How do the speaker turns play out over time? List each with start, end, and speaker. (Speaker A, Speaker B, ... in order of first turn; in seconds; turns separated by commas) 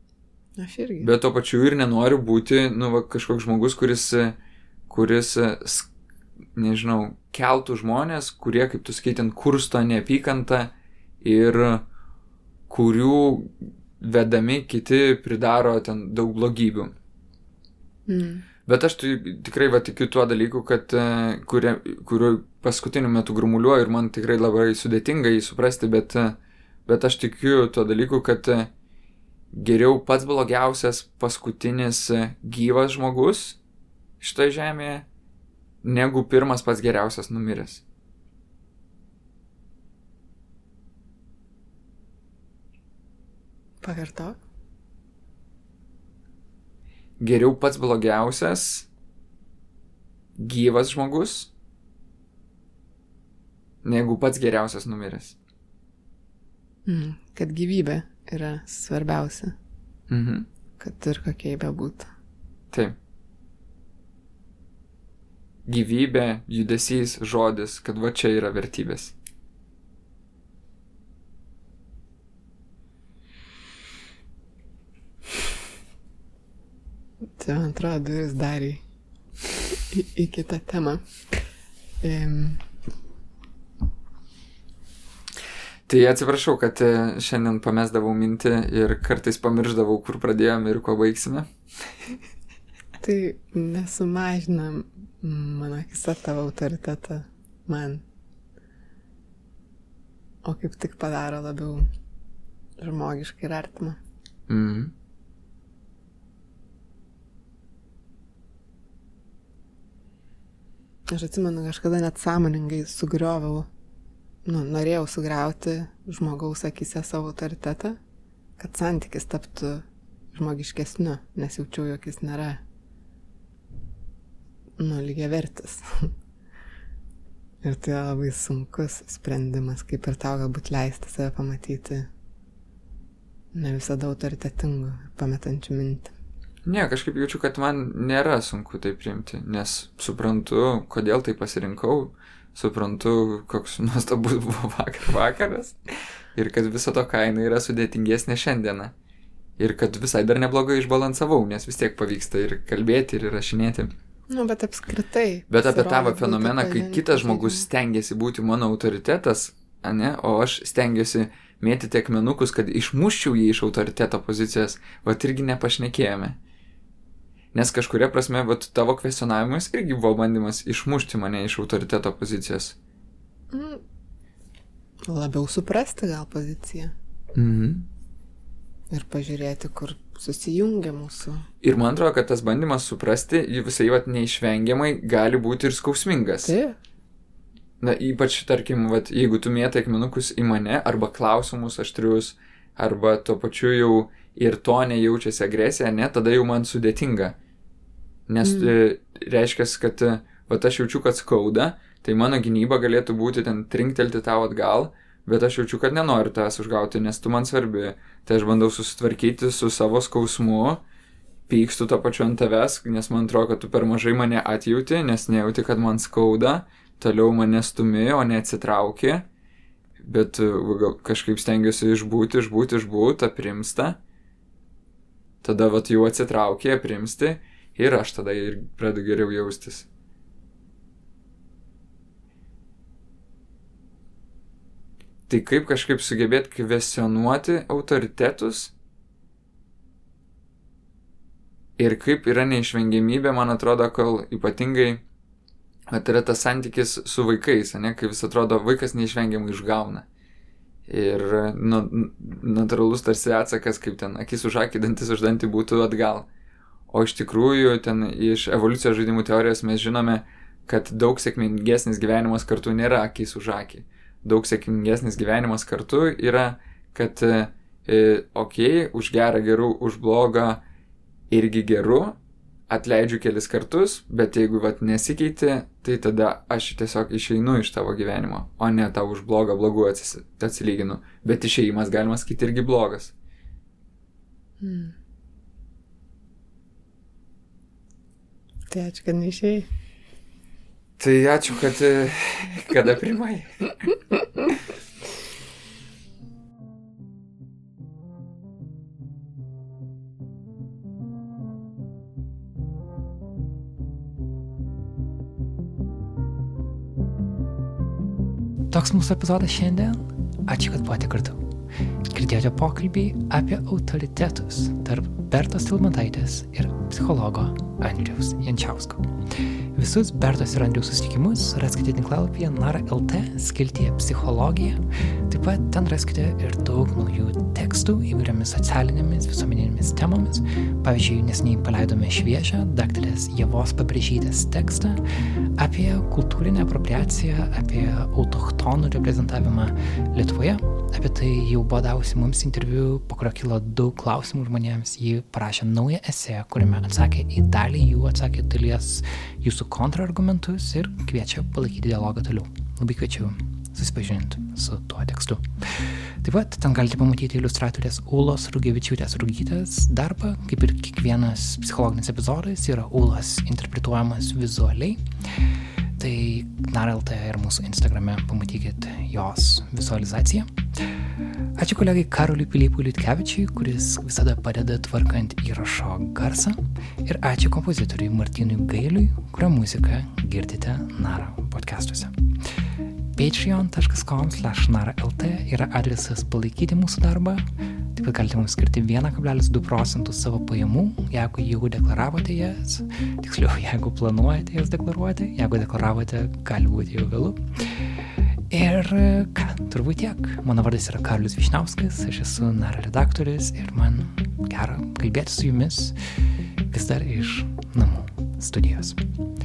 Speaker A: 0.6-1.1, Speaker B: 1.0-4.3, Speaker B: 4.9-5.9, Speaker B: 6.5-11.8, Speaker B: 12.7-16.9, Speaker A: 18.1-18.4, Speaker B: 18.6-28.7, Speaker B: 29.5-33.6, Speaker B: 34.2-35.0, Speaker B: 35.8-37.8, Speaker A: 43.8-44.4, Speaker B: 47.2-48.9, Speaker B: 50.4-51.5, Speaker B: 53.8-55.4, Speaker A: 56.9-59.5, Speaker B: 60.1-60.5, Speaker A: 60.8-62.1, Speaker B: 65.7-69.1, Speaker A: 77.4-78.8, Speaker A: 79.9-81.0, Speaker A: 82.0-82.6, Speaker B: 85.9-92.1, Speaker A: 93.0-98.0, Speaker A: 100.4-101.9, Speaker A: 102.8-104.0, Speaker B: 104.5-104.9, Speaker A: 111.1-113.7, Speaker A: 114.4-118.0, Speaker A: 118.6-122.6, Speaker A: 124.8-126.1, Speaker A: 127.6-132.1, Speaker A: 133.5-136.1, Speaker B: 136.7-145.8, Speaker B: 146.3-148.9, Speaker B: 149.6-153.9, Speaker A: 154.3-157.7, Speaker B: 155.5-166.4, Speaker B: 167.5-172.8, Speaker A: 173.5-173.8, Speaker A: 175.1-176.9, Speaker B: 177.3-177.8, Speaker A: 178.9-181.4, Speaker B: 181.6-186.5, Speaker A: 186.4-186.8, Speaker B: 187.8-197.3, Speaker B: 198.3-210.8, Speaker A: 198.4-198.7, Speaker B: 211.5-219.3, Speaker B: 220.0-224.0, Speaker B: 225.4-229.8, Speaker B: 235.3-238.7, Speaker B: 241.8-245.0, Speaker B: 245.9-250.1, Speaker B: 250.9-256.3, Speaker B: 256.9-270.6, Speaker B: 271.3-272.1, Speaker B: 272.7-283.1, Speaker A: 284.6-284.9, Speaker A: 288.7-289.7, Speaker B: 291.0-293.8, Speaker C: 308.7-311.5, Speaker C: 312.1-319.1, Speaker C: 319.7-335.0, Speaker C: 335.6-365.0, Speaker C: 366.0-370.5, Speaker C: 371.6-382.1, Speaker C: 383.1-397.4, Speaker C: 398.5-405.9, Speaker C: 406.7-409.0